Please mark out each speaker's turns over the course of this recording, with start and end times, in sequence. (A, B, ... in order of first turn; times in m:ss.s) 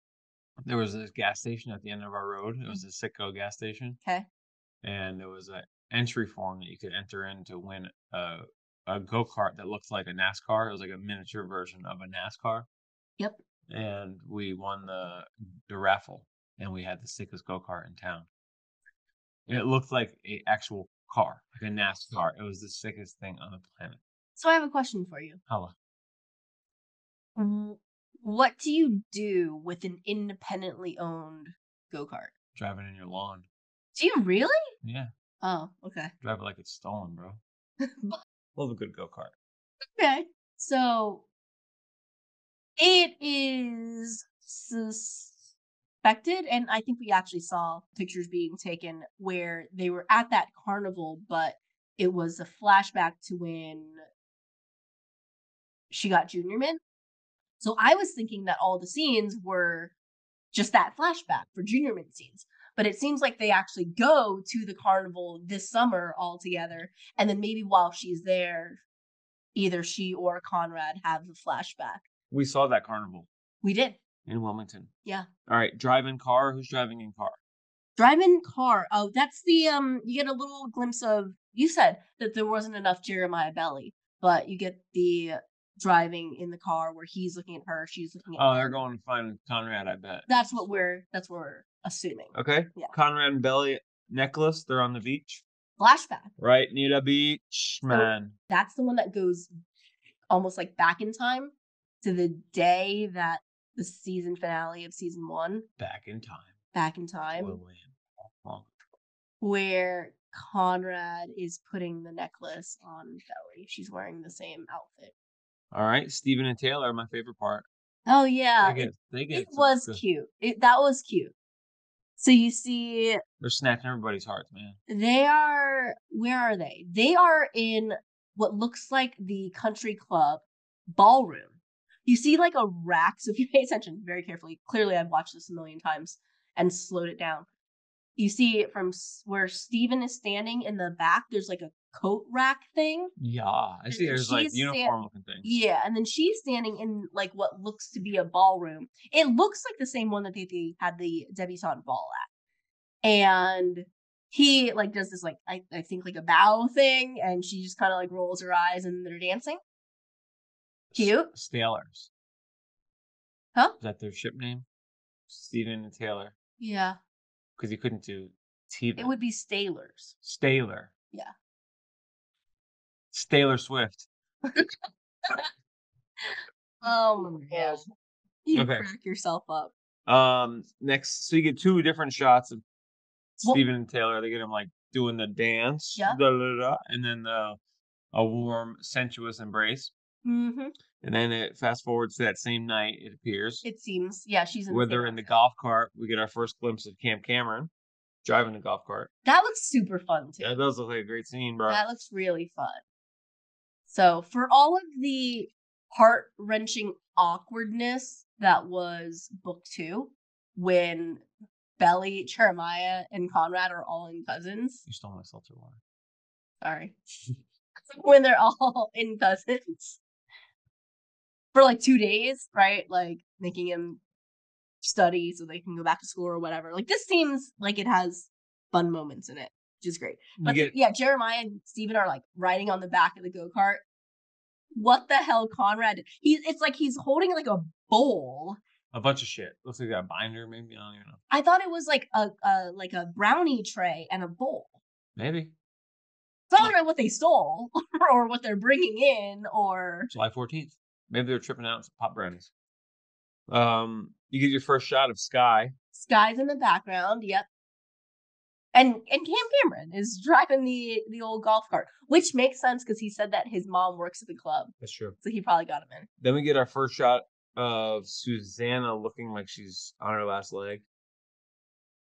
0:00.6-0:04.0 A
0:04.8-0:12.7 A
0:13.7-0:18.3 A
0:19.5-0:24.0 A
0:24.4-0:25.4 B
0:25.5-0:25.8 A
0:27.4-0:32.3 B
0:32.6-0:33.4 A
0:34.0-0:34.6 B
0:34.8-0:35.1 A
0:35.4-0:36.1 B
0:36.2-0:37.4 A
0:37.8-0:38.2 B
0:38.6-0:39.3 A
0:40.0-0:41.2 B
0:42.8-0:45.4 B
0:46.0-0:54.0 B
0:55.9-0:56.8 B
0:57.6-0:59.9 B
1:00.5-1:08.8 B
1:09.6-1:12.0 B
1:12.3-1:13.3 A
1:13.6-1:14.0 B
1:14.3-1:14.9 A
1:15.5-1:17.4 A
1:18.0-1:28.8 B
1:28.4-1:30.3 A
1:30.3-1:32.9 B
1:32.3-1:35.4 A
1:35.8-1:36.3 B
1:36.4-1:38.4 A
1:37.9-1:39.5 B
1:40.3-1:45.7 B
1:45.8-1:46.5 A
1:46.7-1:47.6 B
1:47.4-1:48.7 A
1:49.4-1:55.1 B
1:55.7-1:57.7 A
1:58.1-2:01.3 B
1:58.6-2:00.0 A
2:02.2-2:03.2 B
2:03.4-2:04.8 A
2:04.9-2:11.6 B
2:12.1-2:17.5 B
2:18.2-2:23.1 B
2:23.2-2:25.5 A
2:23.9-2:32.3 B
2:33.0-2:39.6 B
2:40.9-2:42.1 A
2:41.0-2:41.3 B
2:43.8-2:44.6 A
2:45.3-2:46.4 A
2:46.6-2:47.0 B
2:47.6-2:49.1 A
2:49.0-2:50.1 B
2:50.2-2:50.9 A
2:53.1-2:54.1 A
2:54.5-2:55.5 B
2:56.2-2:57.8 B
2:57.5-2:57.8 A
2:58.4-2:59.7 B
2:58.5-2:58.9 A
3:00.1-3:02.6 A
3:03.4-3:07.6 A
3:08.1-3:09.9 A
3:10.2-3:10.7 B
3:11.0-3:13.6 A
3:13.6-3:15.3 B
3:14.7-3:17.7 A
3:18.2-3:19.1 A
3:19.2-3:20.6 B
3:20.4-3:21.8 A
3:21.7-3:22.8 B
3:23.9-3:31.2 B
3:31.8-3:34.8 B
3:34.9-3:35.8 A
3:36.6-3:37.0 B
3:37.9-3:40.0 B
3:41.5-3:44.0 B
3:44.8-3:53.8 B
3:50.4-3:50.7 A
3:54.8-3:58.6 B
3:58.9-4:01.2 A
4:01.3-4:04.7 B
4:05.2-4:05.5 A
4:06.5-4:10.1 B
4:10.1-4:12.5 A
4:13.5-4:15.7 A
4:15.9-4:17.5 B
4:18.7-4:26.1 B
4:24.8-4:25.2 A
4:26.2-4:30.8 A